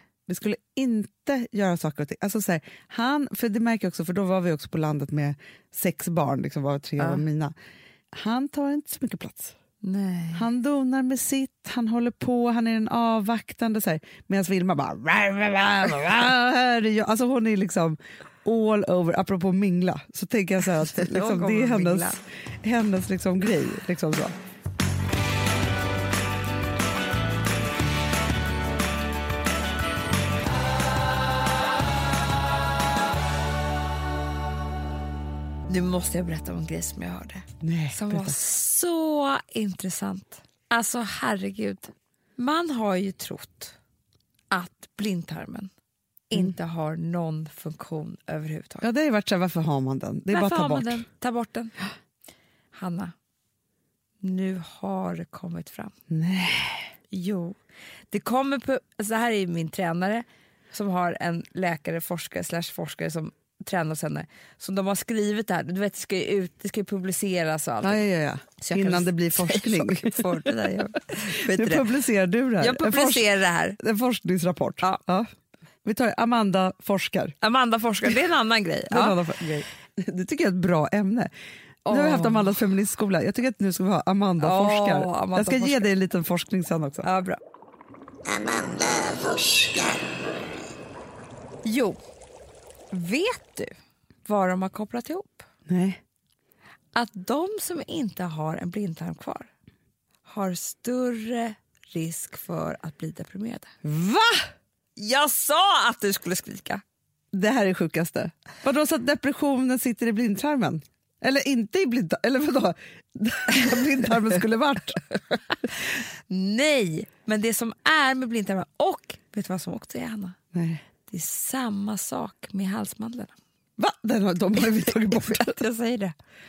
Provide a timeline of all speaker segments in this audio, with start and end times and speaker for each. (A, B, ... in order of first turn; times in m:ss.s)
0:00.3-0:07.5 A
0:08.1-0:09.6 A
0:09.8-0:10.4 B
0:10.3-0:24.4 A
0:20.8-0:22.2 B
0:35.7-0:43.8 B
0:37.6-0:38.4 A
0:44.5-0:45.7 B
0:46.3-0:48.9 B
0:48.8-0:51.0 A
0:50.3-0:51.7 B
0:52.7-0:53.1 B
0:54.2-0:55.9 B
0:56.1-0:56.9 A
0:57.1-0:57.6 B
0:58.1-1:08.0 B
1:07.8-1:10.5 A
1:08.6-1:11.9 B
1:11.3-1:13.3 A
1:12.6-1:13.8 B
1:13.8-1:15.3 A
1:15.8-1:17.4 A
1:17.4-1:19.2 B
1:18.9-1:21.3 A
1:21.9-1:22.5 B
1:21.9-1:27.1 A
1:24.4-1:25.9 B
1:27.0-1:27.4 B
1:31.6-1:32.0 B
1:32.9-1:33.7 B
1:34.3-1:35.4 B
1:35.7-1:36.0 A
1:36.9-1:39.5 B
1:40.2-1:43.7 B
1:43.8-1:44.5 A
1:45.0-1:46.8 B
1:47.3-1:55.0 A
1:56.3-2:00.4 B
2:00.5-2:00.8 A
2:01.1-2:03.3 B
2:03.8-2:05.6 A
2:04.6-2:06.2 B